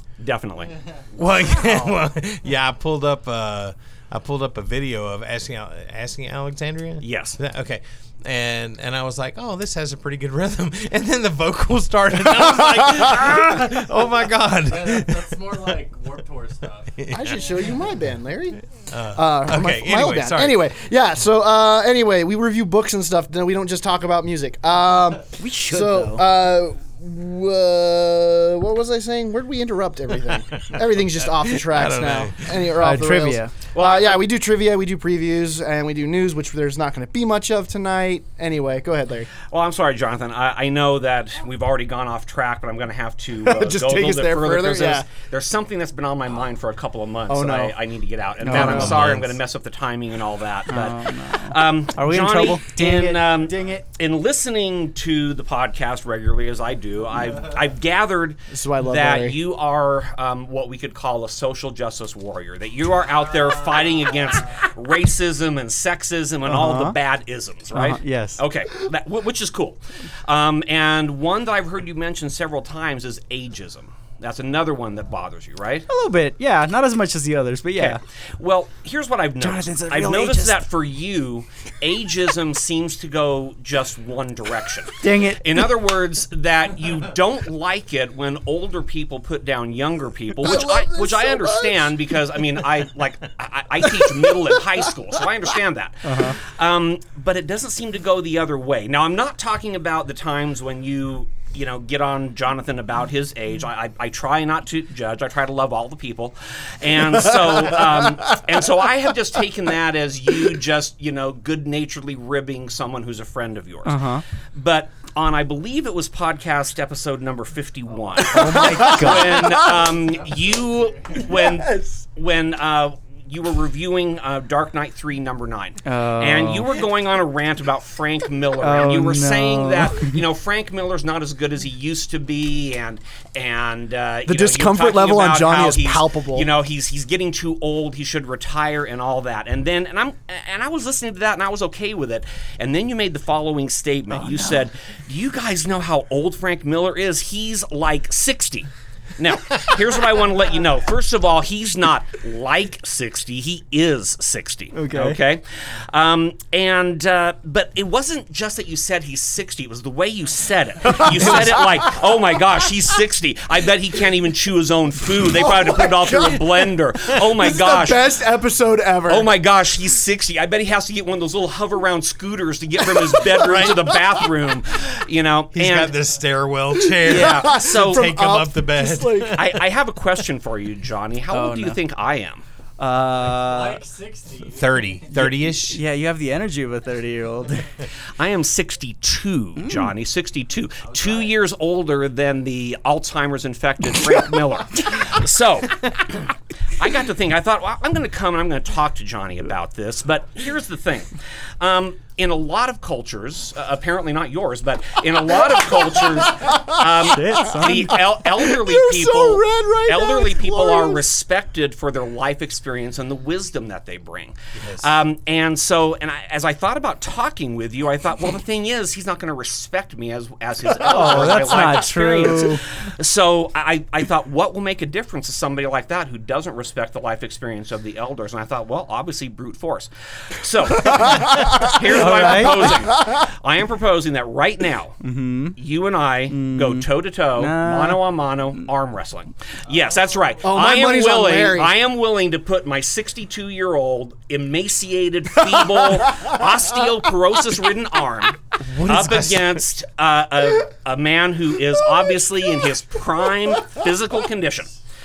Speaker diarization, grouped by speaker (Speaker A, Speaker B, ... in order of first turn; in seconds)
Speaker A: 0.2-0.7, 7.0-7.4, 33.7-34.2, 39.4-75.9, 77.8-168.1, 169.1-176.0, 177.0-178.1, 179.3-182.4, 188.1-235.0, 235.6-254.7
Speaker B: 0.6-1.1, 14.6-18.0, 63.4-64.6, 119.7-121.3, 183.2-185.3, 190.8-191.3
Speaker C: 1.1-15.7, 17.0-17.9, 18.7-20.6, 30.3-32.7, 48.6-49.4, 173.4-174.0, 175.5-179.6, 184.5-185.8, 214.5-214.9, 248.6-249.6
Speaker D: 17.1-39.3, 43.4-45.1, 47.3-47.7, 48.5-49.1, 58.5-59.4, 66.5-66.9, 90.4-91.9, 94.0-94.3, 118.3-119.9, 121.3-122.0, 134.3-136.5, 160.8-162.0, 165.2-169.3, 173.0-174.2, 176.7-179.6, 206.0-211.0, 230.8-233.2, 240.4-241.7
Speaker E: 25.4-26.3, 32.8-33.5, 48.4-49.0, 50.7-53.8, 66.5-66.9, 67.7-68.4, 75.9-78.0, 79.4-80.7, 85.0-85.7, 96.0-96.4, 113.8-114.2, 118.1-119.7, 125.8-126.7, 128.6-130.2, 144.1-144.7, 154.7-155.2, 181.3-181.8, 182.8-183.8, 185.1-187.7, 189.6-189.9, 207.0-208.0, 220.8-222.7, 231.8-232.8, 235.0-235.6, 236.3-238.6